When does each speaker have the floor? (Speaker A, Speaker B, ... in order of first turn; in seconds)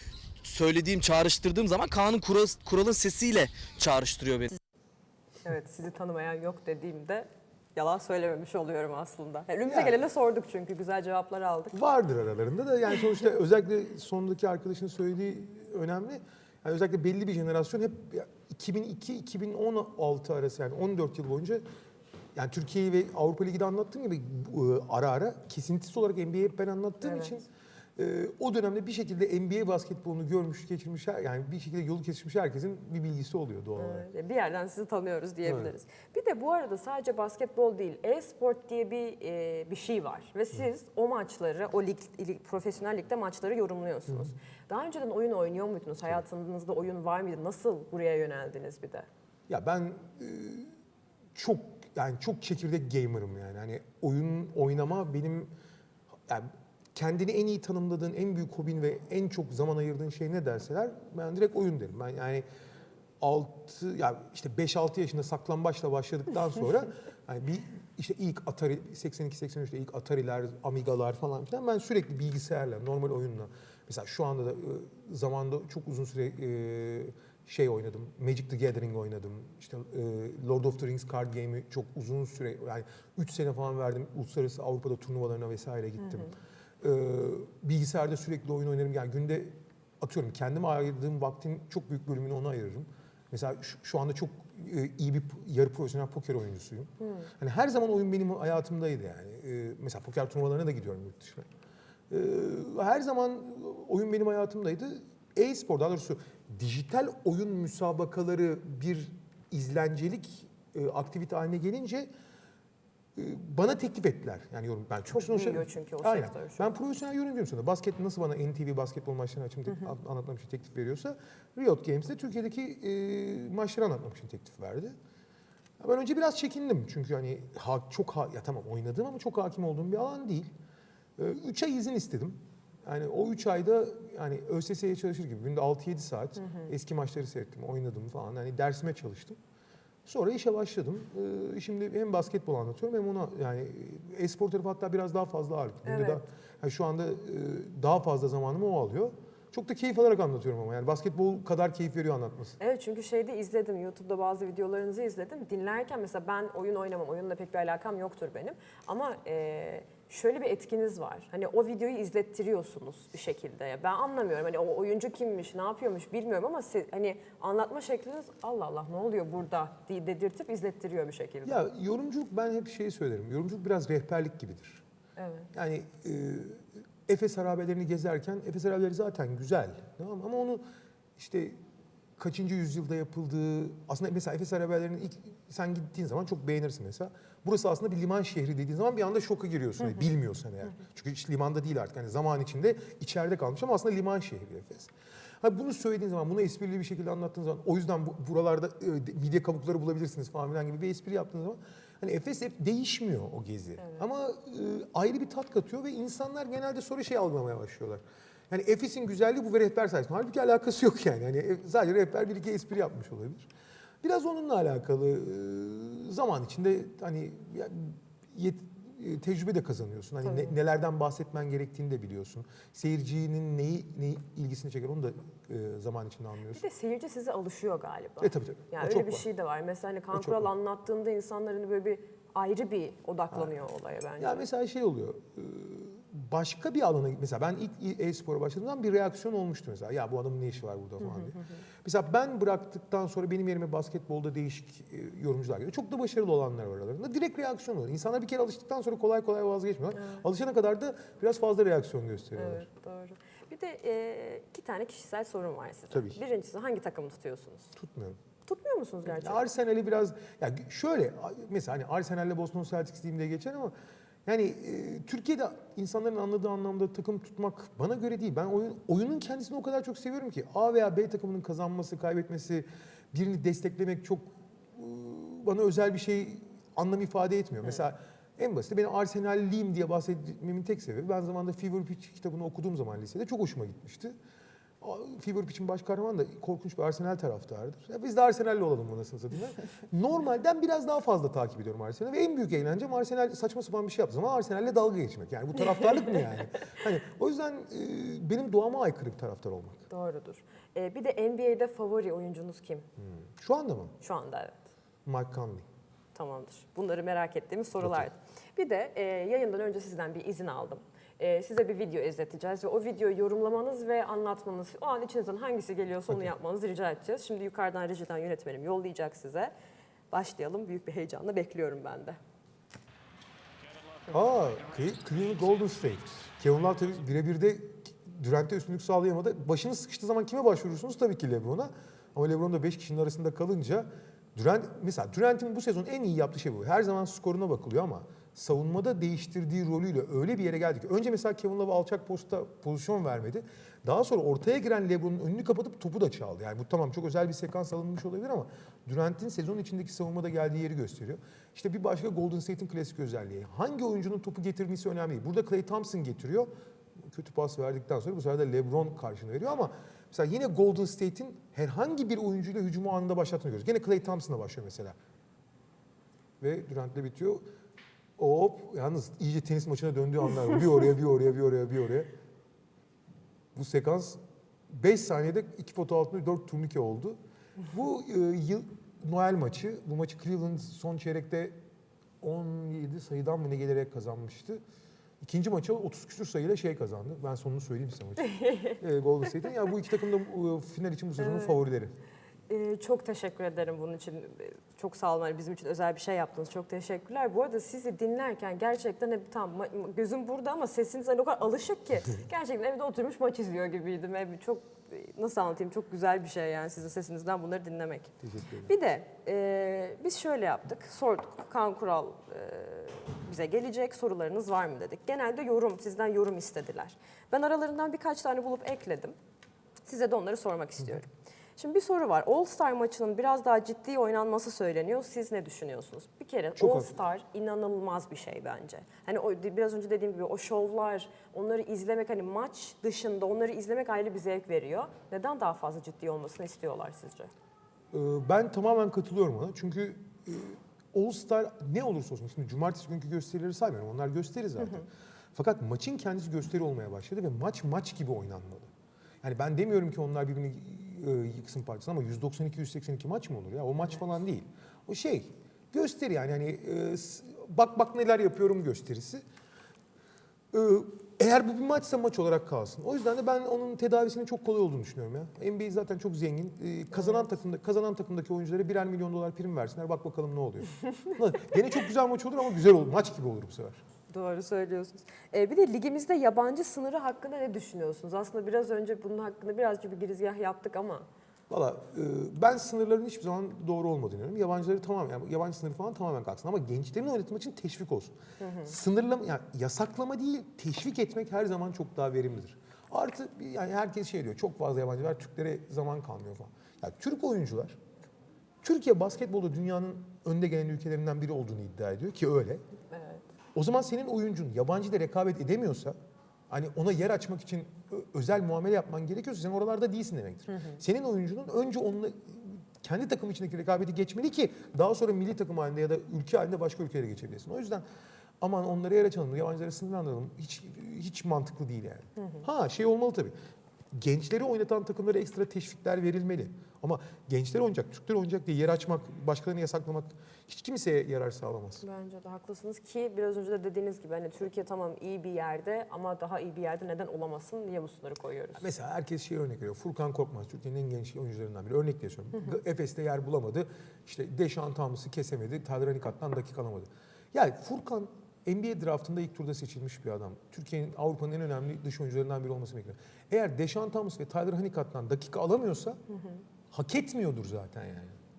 Speaker A: 0.4-4.6
Speaker B: 5.5-11.8, 27.0-27.4, 33.8-49.1, 97.0-97.3, 115.1-116.7, 136.4-136.7, 145.9-146.2, 152.6-171.6, 175.2-175.5, 220.2-220.6, 226.5-234.4, 241.1-241.4, 249.9-250.2, 252.4-257.7, 258.5-259.4, 299.9-302.9, 304.0-304.6, 306.1-319.5, 320.1-322.2, 388.2-388.8, 391.2-391.6, 392.5-408.1, 408.7-419.2, 419.9-437.3, 466.9-467.3, 474.1-481.1, 488.4-488.7, 502.9-503.2, 510.5-510.8, 522.2-522.5, 531.8-538.7, 556.1-556.4
Speaker C: 9.7-10.0, 11.7-21.6, 22.4-27.5, 28.0-34.1, 35.5-35.7, 49.5-50.7, 51.4-55.5, 56.3-62.5, 63.2-101.5, 102.1-112.1, 113.2-125.0, 125.8-130.5, 131.2-139.4, 140.1-152.6, 171.4-174.8, 175.5-180.6, 181.2-181.6, 182.2-213.5, 214.0-226.6, 228.2-229.3, 230.1-230.5, 234.2-252.7, 255.9-256.2, 257.8-258.2, 259.1-263.7, 264.3-284.2, 284.8-299.9, 303.0-303.9, 305.1-305.7, 307.8-308.1, 324.1-365.0, 366.4-367.4, 368.2-372.1, 373.6-377.2, 377.7-381.6, 382.2-384.6, 385.2-391.9, 408.2-408.7, 426.6-426.9, 437.9-448.7, 449.2-459.2, 460.5-473.8, 481.5-497.8, 498.6-502.6, 503.6-506.0, 506.5-517.9, 518.4-523.4, 523.9-531.8, 538.6-556.0, 556.7-558.2